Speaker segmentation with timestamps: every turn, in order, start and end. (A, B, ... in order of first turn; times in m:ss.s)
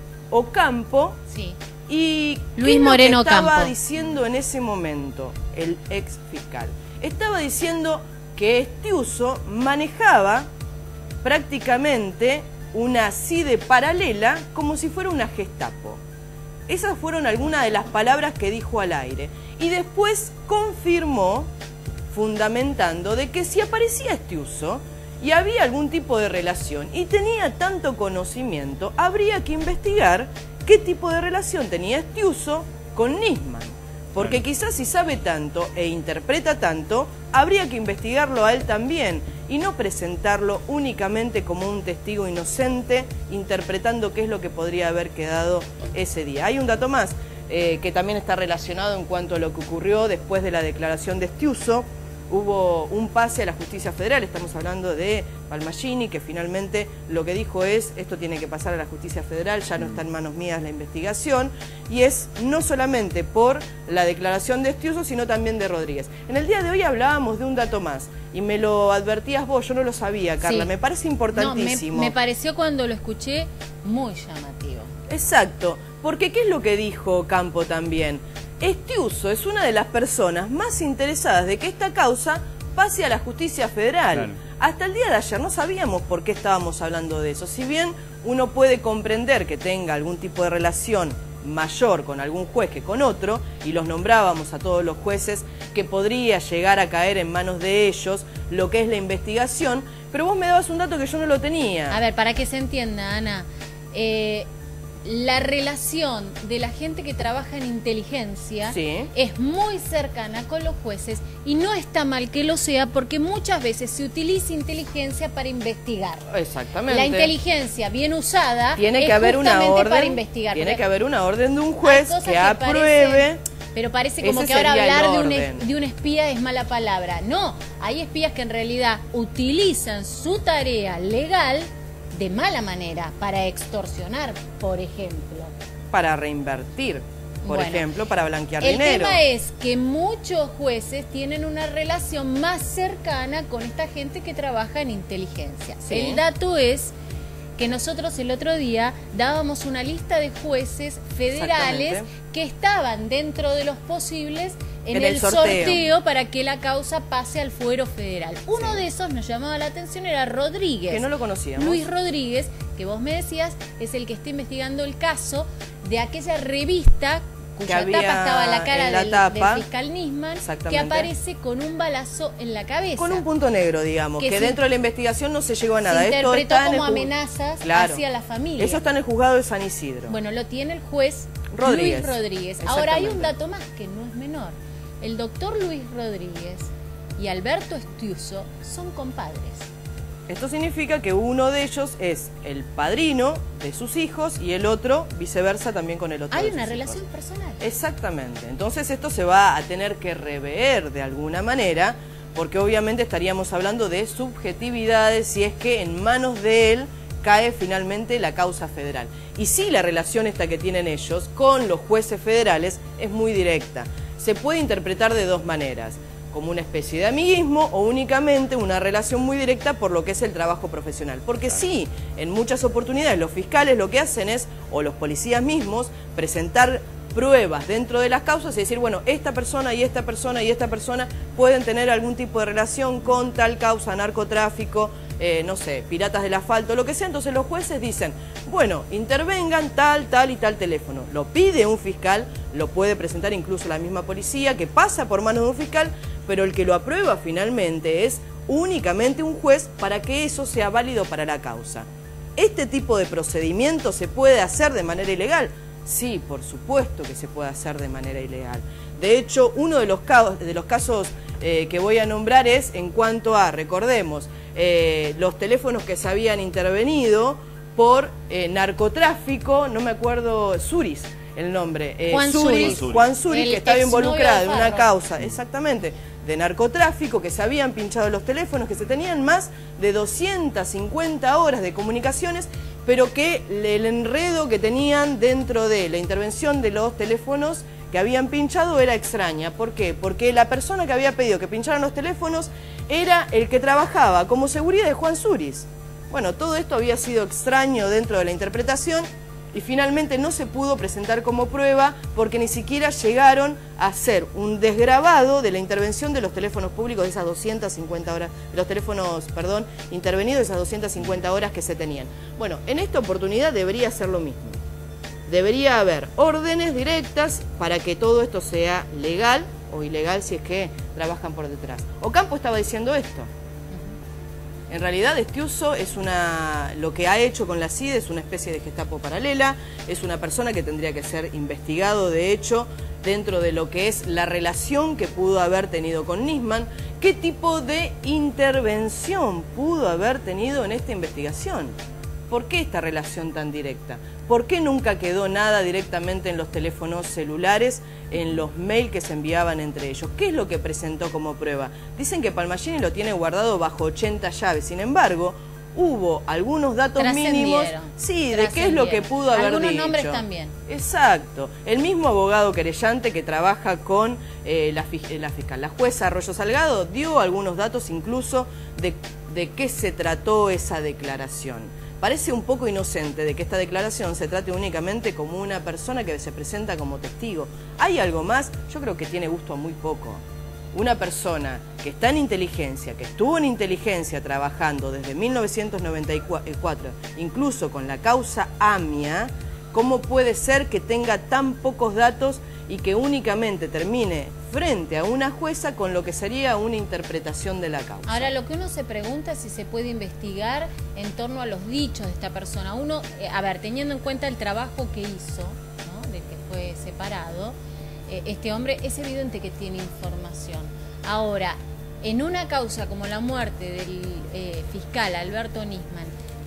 0:00.3-0:01.2 A
0:01.3-0:01.6 B
0:01.9-0:10.5 A
0:02.6-0:03.7 B
0:11.2-0:16.0 A
0:16.7-0:21.5 A
0:22.1-1:12.1 A
1:10.4-1:10.7 B
1:11.3-1:14.9 B
1:15.1-1:42.0 A
1:41.9-1:44.5 B
1:45.0-1:56.2 B
1:48.6-1:49.1 A
1:56.3-1:57.3 A
1:56.9-2:00.8 B
1:58.8-2:03.4 A
2:01.8-2:15.5 B
2:04.2-2:05.6 A
2:15.9-2:19.2 A
2:17.4-2:17.8 B
2:18.6-2:26.9 B
2:25.8-2:26.2 A
2:27.6-2:41.0 B
2:31.4-2:32.1 A
2:34.9-2:35.9 A
2:40.9-2:41.8 A
2:41.6-2:53.2 B
2:47.6-2:49.7 A
2:50.4-2:51.1 A
2:53.0-2:58.0 A
2:54.2-2:54.6 B
2:55.8-2:58.8 B
2:58.6-3:00.2 A
3:00.1-3:09.7 B
3:01.5-3:03.3 A
3:10.3-3:17.0 A
3:16.3-3:17.6 B
3:17.6-5:14.5 A
4:32.1-4:34.9 B
5:15.3-5:23.3 A
5:24.7-5:41.7 A
5:42.3-6:38.3 A
5:57.0-6:00.5 B
6:38.0-6:47.6 B
6:48.1-6:56.1 B